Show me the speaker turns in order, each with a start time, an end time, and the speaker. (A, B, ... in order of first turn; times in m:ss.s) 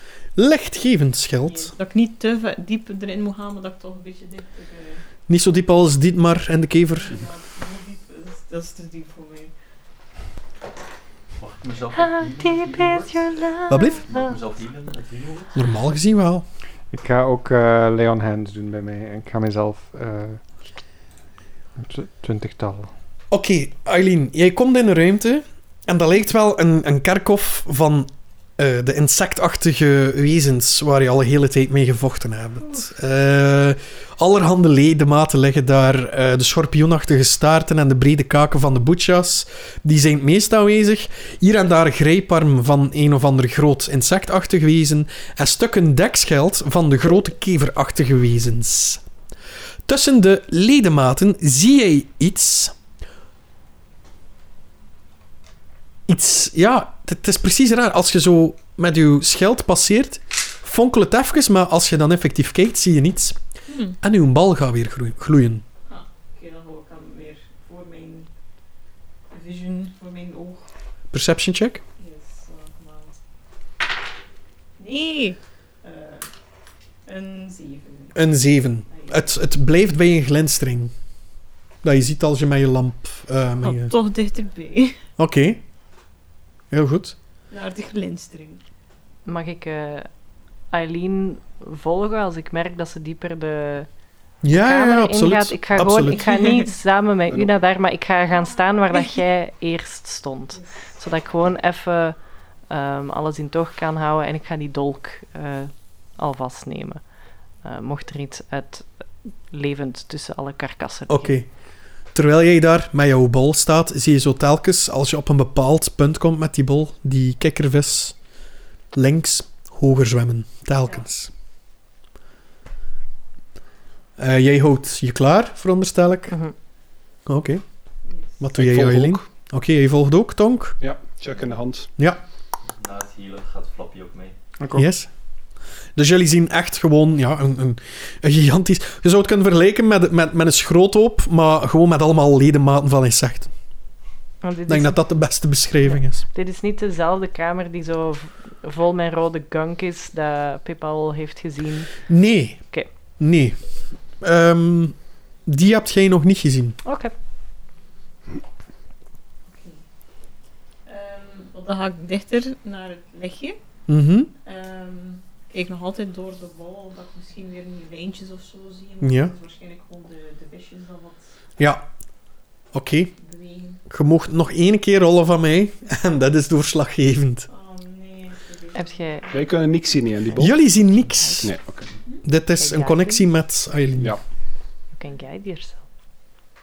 0:00.4-0:01.7 A
0:01.4-0:05.0 B
0:05.3-0:07.2 A
0:06.9-0:09.5 B
0:11.4-0:13.2 C
0:12.0-0:14.3 D
0:13.7-0:14.1 A
0:14.1-0:15.5 C
0:15.6-0:16.4 A
0:16.9-0:20.4 E
0:21.8-0:22.9 E
0:23.3-0:49.0 A
0:49.9-0:52.7 A
0:56.1-1:03.4 A
1:03.7-1:04.0 B
1:04.0-1:05.6 A
1:05.9-1:08.3 B
1:09.3-1:10.7 B
1:11.1-1:11.8 A
1:12.0-1:13.1 B
1:14.8-1:16.3 B
1:17.1-1:18.2 B
1:18.1-1:20.9 A
1:18.9-1:19.3 B
1:21.8-1:24.0 A
1:23.6-1:25.0 B
1:25.2-1:25.6 A
1:26.7-1:27.2 A
1:27.5-1:28.6 B
1:29.3-1:30.1 D
1:30.7-1:33.9 D
1:34.4-1:36.3 A
1:34.5-1:42.2 D
1:38.4-1:39.1 B
1:40.6-1:40.9 B
1:42.7-1:47.0 D
1:47.6-1:48.9 D
1:49.5-1:51.4 D
1:51.1-1:51.5 A
1:52.1-1:58.2 A
1:58.9-2:01.3 A
2:04.2-2:06.4 A
2:07.3-2:07.6 A
2:08.1-2:08.5 B
2:08.4-2:10.8 A
2:08.6-2:09.2 F
2:10.8-2:11.9 F
2:11.3-2:11.6 B
2:12.7-2:14.3 C
2:14.6-2:14.9 E
2:14.7-2:15.1 A
2:16.0-2:23.5 A
2:24.4-2:25.0 D
2:24.7-2:26.2 A
2:25.9-2:32.1 D
2:32.1-2:32.6 A
2:33.2-2:33.6 A
2:34.2-2:36.8 A
2:36.8-2:37.1 D
2:39.5-2:39.8 B
2:40.9-2:43.6 B
2:43.9-2:44.3 A
2:44.4-2:51.4 B
2:49.0-2:49.3 A
2:51.6-2:51.9 A
2:52.7-2:53.1 A
2:53.2-2:53.8 B
2:53.9-2:57.5 A
2:57.5-2:59.4 B
2:58.7-2:59.2 D
2:59.3-3:00.6 F
3:00.4-3:01.6 A
3:00.8-3:01.5 D
3:01.4-3:01.9 F
3:02.2-3:04.2 A
3:02.6-3:03.2 D
3:05.0-3:05.8 D